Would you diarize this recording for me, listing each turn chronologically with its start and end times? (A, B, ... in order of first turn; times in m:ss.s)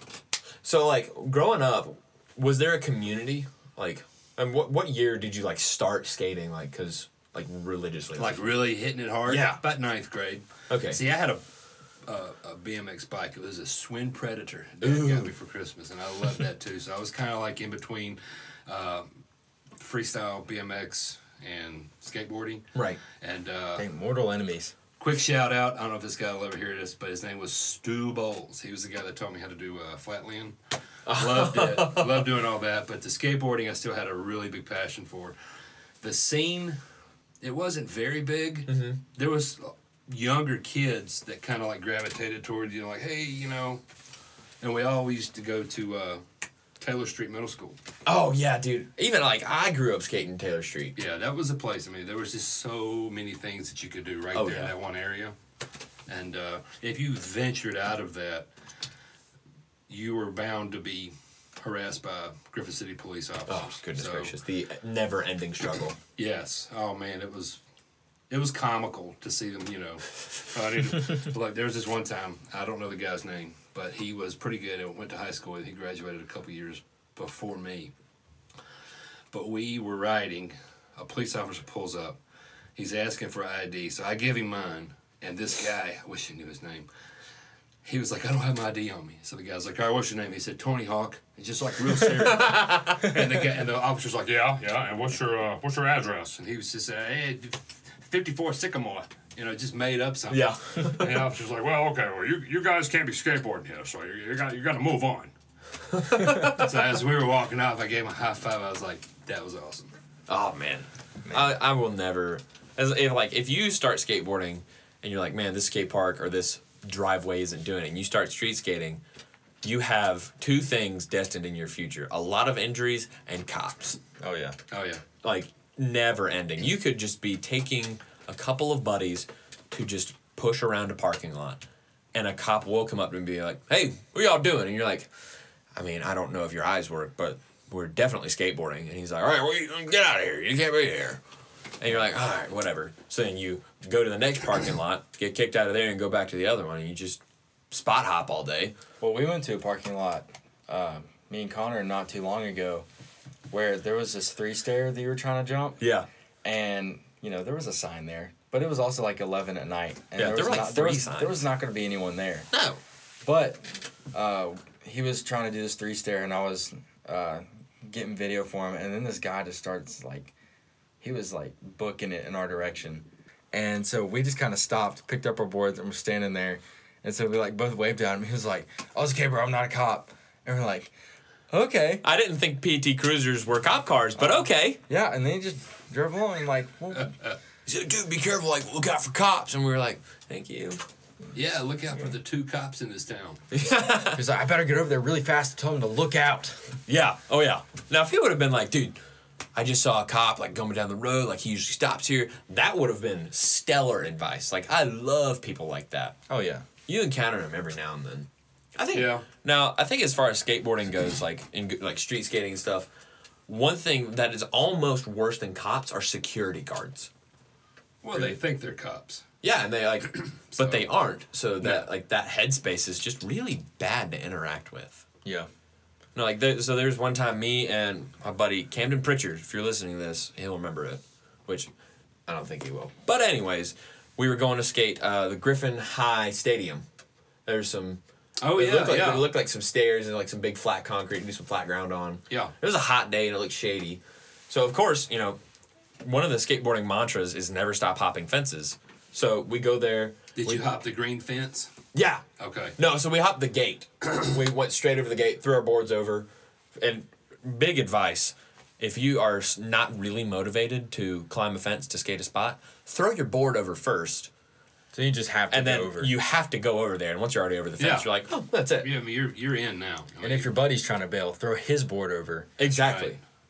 0:00.6-0:08.6 A
0:08.2-0:11.4 B
0:09.3-0:09.6 A
0:10.7-0:11.0 A
0:12.1-0:19.1 B
0:14.8-0:15.3 A
0:19.8-0:23.9 B
0:22.7-0:23.0 A
0:23.8-0:24.8 C
0:25.0-0:30.6 B
0:31.1-0:32.2 A
0:31.1-0:35.4 B
0:36.0-0:36.8 B
0:37.4-0:43.8 B
0:38.7-0:39.0 A
0:44.6-0:46.2 B
0:46.8-0:47.8 B
0:48.1-0:51.0 A
0:51.0-0:55.4 B
0:54.3-0:54.7 A
0:56.1-0:58.5 B
0:59.9-1:04.4 B
1:03.5-1:06.0 A
1:06.2-1:07.6 B
1:08.3-1:17.9 B
1:19.3-1:22.2 B
1:22.8-1:26.9 B
1:27.8-1:45.3 B
1:32.0-1:33.3 A
1:40.3-1:41.2 A
1:45.9-1:46.7 A
1:46.1-1:49.9 B
1:50.3-1:59.0 A
1:51.2-1:51.6 C
1:59.6-2:04.0 A
2:04.2-2:04.6 C
2:04.7-2:05.0 B
2:05.2-2:11.6 A
2:12.1-2:15.1 A
2:15.8-2:21.2 A
2:21.8-2:28.8 A
2:29.0-2:32.9 C
2:33.5-2:35.8 C
2:35.8-2:36.1 A
2:36.4-2:42.5 C
2:40.2-2:41.5 A
2:42.5-2:42.8 A
2:43.2-2:50.3 C
2:51.0-3:00.9 C
3:01.5-3:02.0 C
3:02.0-3:04.8 A
3:04.2-3:07.1 C
3:06.9-3:07.4 B
3:07.7-3:10.8 A
3:11.3-3:13.4 B
3:13.5-3:14.2 A
3:14.1-3:16.7 C
3:16.9-3:19.0 A
3:19.6-3:26.2 A
3:26.3-3:26.6 C
3:26.9-3:32.9 A
3:28.9-3:29.3 B
3:33.5-3:37.1 A
3:38.0-3:39.2 B
3:39.4-3:45.0 A
3:40.1-3:40.9 B
3:41.6-3:41.9 B
3:46.2-3:51.7 A
3:52.3-3:56.8 A
3:57.5-4:05.4 A
3:58.4-3:59.3 B
4:06.0-4:10.7 A
4:10.4-4:11.7 B
4:11.9-4:12.2 A
4:12.4-4:12.8 B
4:12.8-4:24.3 A
4:24.9-4:26.1 C
4:25.5-4:28.9 A
4:27.8-4:28.1 B
4:28.8-4:30.5 B
4:30.2-4:32.5 C
4:32.6-4:33.2 A
4:32.7-4:33.2 B